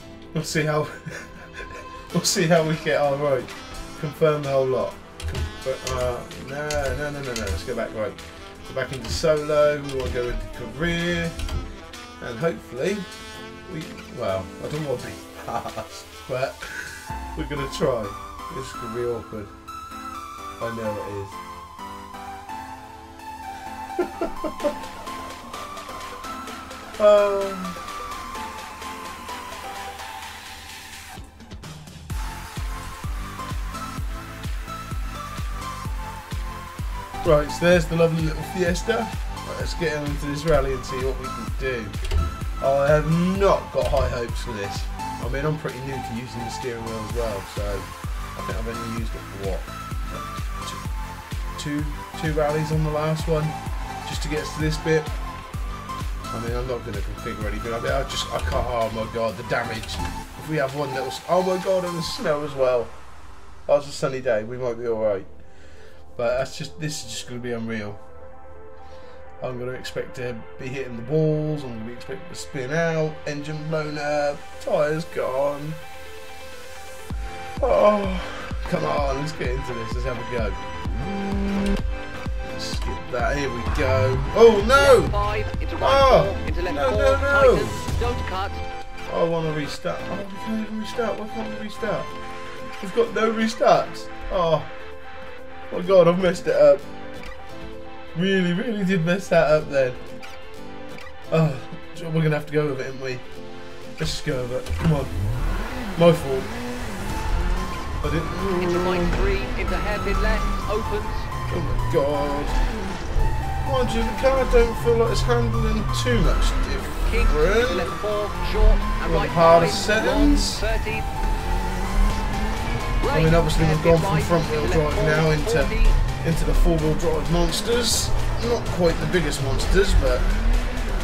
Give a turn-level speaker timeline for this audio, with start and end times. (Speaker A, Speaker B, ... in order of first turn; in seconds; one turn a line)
Speaker A: 0.3-11.3
Speaker A: 12.2-13.1
Speaker A: 13.7-19.5
Speaker A: 20.6-21.4
Speaker A: 24.0-24.7
Speaker A: 27.0-27.8
Speaker A: 37.2-42.0
Speaker A: 42.6-50.8
Speaker A: 51.6-55.1
Speaker A: 56.3-62.9
Speaker A: 63.7-65.3
Speaker A: 66.2-68.0
Speaker A: 69.4-75.8
Speaker A: 77.6-80.6
Speaker A: 82.4-85.2
Speaker B: 84.8-88.6
Speaker A: 85.8-87.8
Speaker A: 89.1-92.1
Speaker A: 92.8-94.7
Speaker A: 95.7-96.8
Speaker A: 98.1-100.0
Speaker A: 101.3-103.2
Speaker A: 104.0-105.1
Speaker A: 106.0-106.5
Speaker A: 108.0-109.3
Speaker B: 108.6-111.3
Speaker A: 111.5-112.6
Speaker A: 113.6-117.9
Speaker B: 117.1-121.1
Speaker A: 119.0-120.7
Speaker B: 123.0-126.0
Speaker A: 123.1-130.3